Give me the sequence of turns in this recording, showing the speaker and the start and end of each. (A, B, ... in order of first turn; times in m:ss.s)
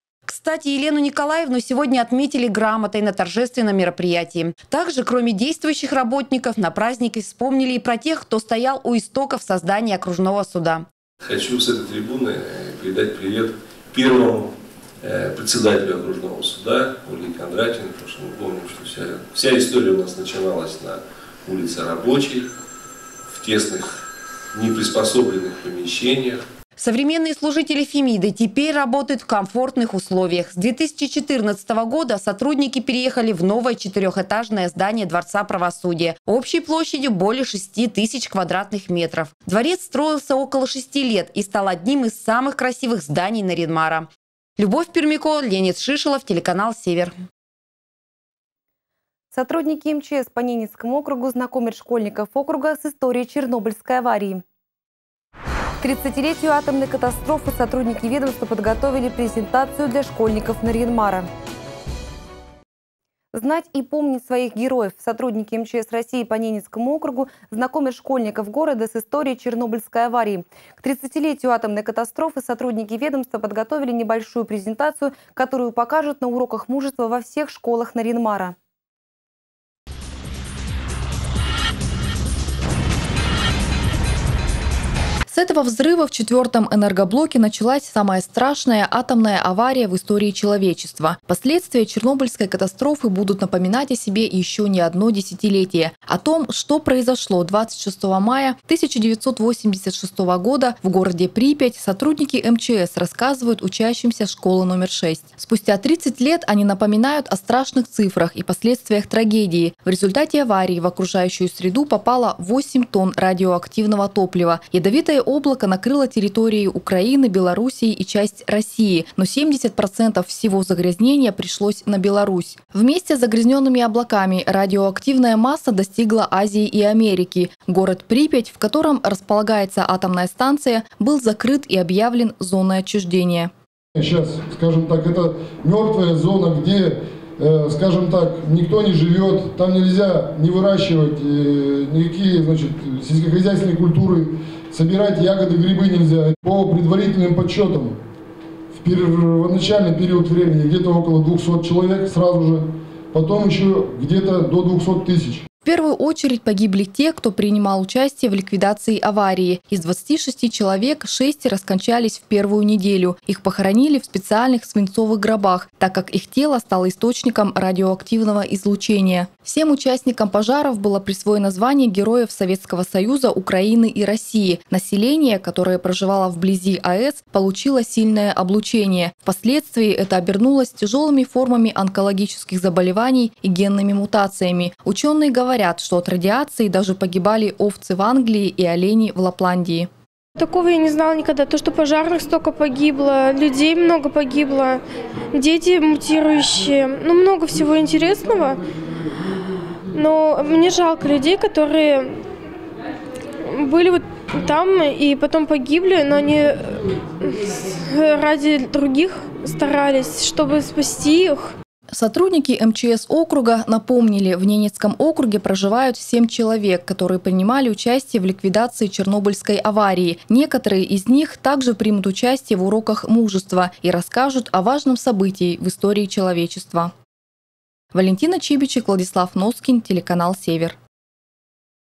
0:00.3-0:10.8 A
0:11.2-0:14.5 B
0:15.0-0:22.5 B
0:23.3-0:23.9 B
0:24.5-0:26.4 B
0:26.8-0:47.1 A
0:49.3-0:54.4 C
0:55.8-1:01.3 C
1:03.3-1:18.5 C
1:25.3-2:13.5 D
2:14.0-2:28.0 E
2:28.7-2:35.4 E
2:35.6-3:09.9 D
3:10.4-3:18.6 F
3:19.9-3:22.2 F
3:23.5-3:31.5 F
3:31.9-3:46.9 D
3:47.9-3:50.8 D